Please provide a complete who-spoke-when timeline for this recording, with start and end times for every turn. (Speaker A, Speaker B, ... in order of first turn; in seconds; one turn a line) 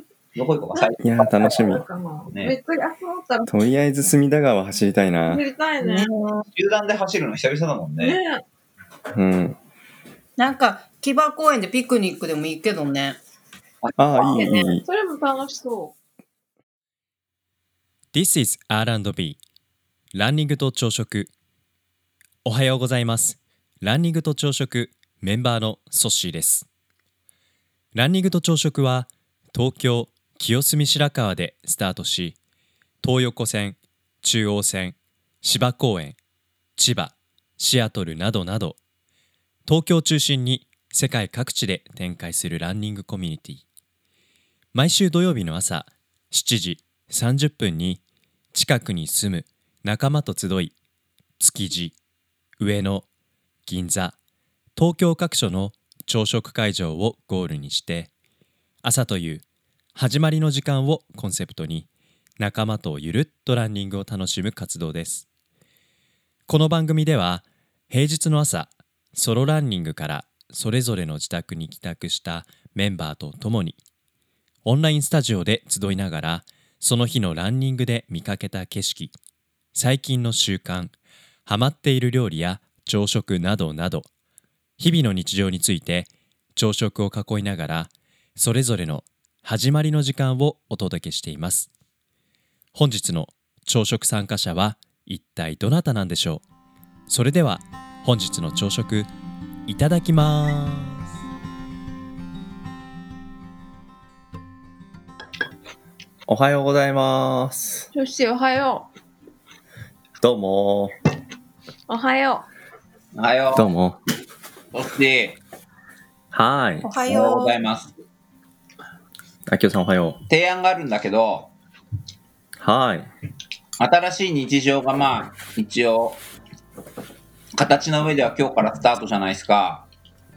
Speaker A: 0.3-1.6
Speaker B: 1.0-1.8
Speaker C: 1.4-3.5
Speaker B: 3.5-5.4
Speaker C: 5.3-6.1
Speaker D: 5.8-6.5
Speaker A: 6.5-8.2
Speaker C: 8.0-8.4
Speaker B: 9.1-9.6
Speaker D: 10.4-13.2
Speaker B: 14.0-14.8
Speaker C: 14.2-15.9
Speaker E: 18.1-19.4
Speaker E: 20.1-21.3
Speaker E: 22.4-26.7
Speaker E: 27.9-32.4
Speaker E: 33.0-36.1
Speaker E: 36.8-38.8
Speaker E: 39.6-43.6
Speaker E: 44.7-48.0
Speaker E: 48.5-50.7
Speaker E: 51.4-52.0
Speaker E: 52.6-53.0
Speaker E: 53.6-54.1
Speaker E: 54.8-58.1
Speaker E: 58.8-59.4
Speaker E: 59.9-61.9
Speaker E: 62.4-65.2
Speaker E: 66.5-73.8
Speaker E: 74.6-79.1
Speaker E: 79.7-80.9
Speaker E: 81.5-84.1
Speaker E: 84.8-91.7
Speaker E: 92.7-96.4
Speaker E: 97.1-99.1
Speaker E: 99.7-101.0
Speaker B: 106.3-107.9
Speaker C: 107.9-108.9
Speaker B: 110.2-110.9
Speaker C: 111.9-112.5
Speaker A: 113.1-113.7
Speaker B: 113.5-114.0
Speaker A: 114.7-115.4
Speaker B: 116.3-116.8
Speaker D: 116.8-117.6
Speaker A: 117.1-117.9
Speaker B: 119.5-120.2
Speaker A: 120.3-121.5
Speaker B: 122.6-123.1
Speaker A: 123.8-126.2
Speaker A: 127.5-129.8